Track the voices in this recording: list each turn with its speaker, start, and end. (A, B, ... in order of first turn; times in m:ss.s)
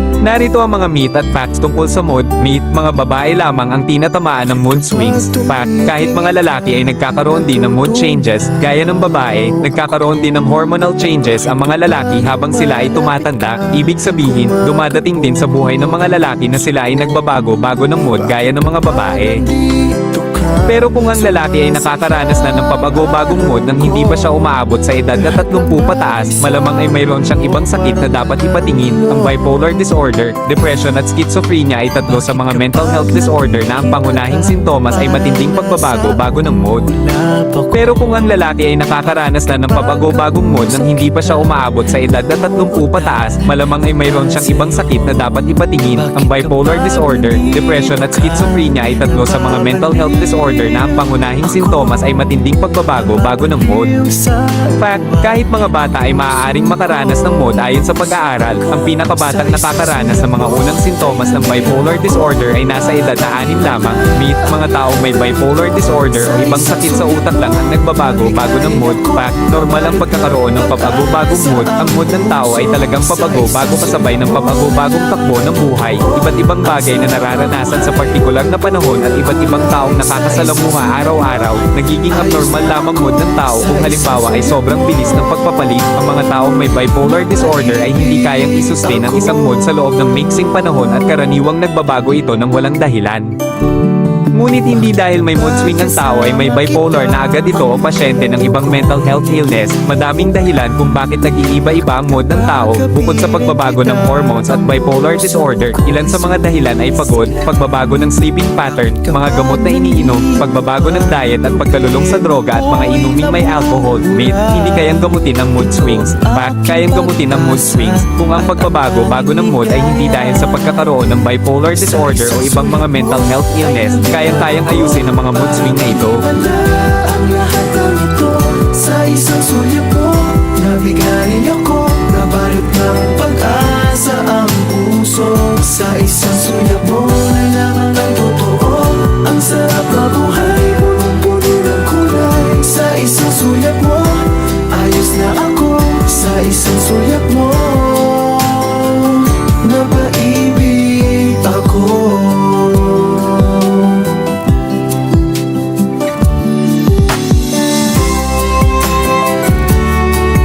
0:00.2-0:19.4 A
0:04.8-0:10.1 B
0:11.0-0:15.8 B
0:16.9-0:17.2 B
0:18.0-0:24.4 B
0:20.7-0:36.9 A
0:25.1-0:29.4 B
0:32.1-0:38.2 B
0:37.7-0:53.9 A
0:39.6-0:45.2 B
0:45.9-0:52.4 B
0:52.9-1:29.8 B
0:54.7-1:33.3 A
1:34.4-2:06.3 A
1:35.2-1:39.4 B
1:42.1-1:47.6 B
1:48.9-2:00.7 B
2:01.7-2:34.2 B